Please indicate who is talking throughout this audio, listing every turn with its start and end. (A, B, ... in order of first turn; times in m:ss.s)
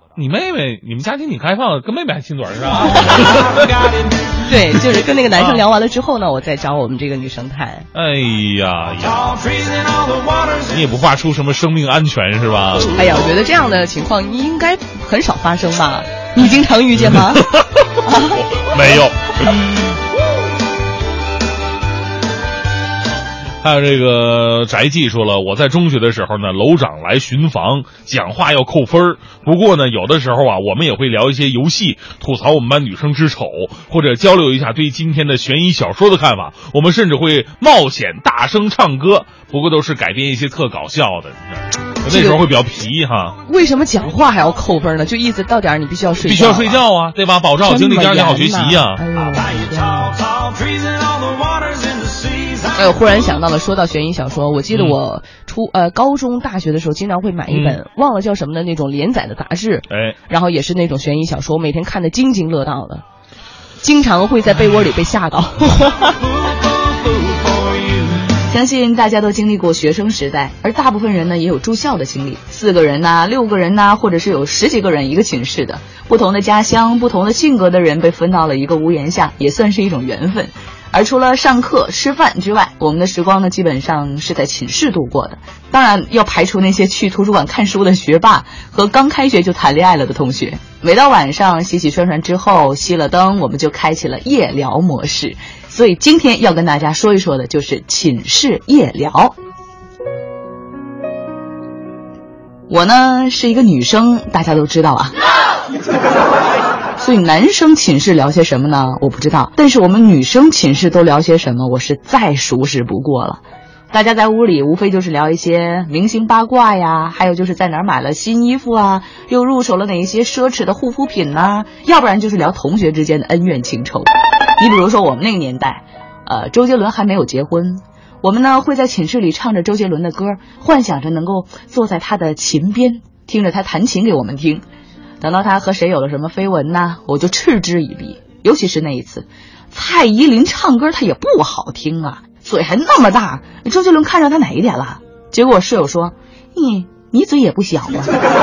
0:00.2-0:03.8 A
0:04.4-0:07.9 B
0:05.4-0:05.6 A
0:07.9-0:09.4 A
0:10.7-0:12.9 A
0:12.9-0:17.5 B
0:17.0-0:19.6 A
0:18.0-0:18.4 B
0:23.6-0:43.4 A
0:42.0-0:42.4 B
0:43.4-0:46.8 B
0:46.2-0:49.0 A
0:47.6-0:50.2 B
0:52.7-1:03.0 B
0:54.7-0:55.0 A
0:57.5-0:57.8 A
0:59.9-1:00.2 A
1:03.8-1:06.2 B
1:08.5-1:39.4 C
1:42.7-1:45.1 C
1:47.0-2:14.6 C
2:15.2-2:28.1 C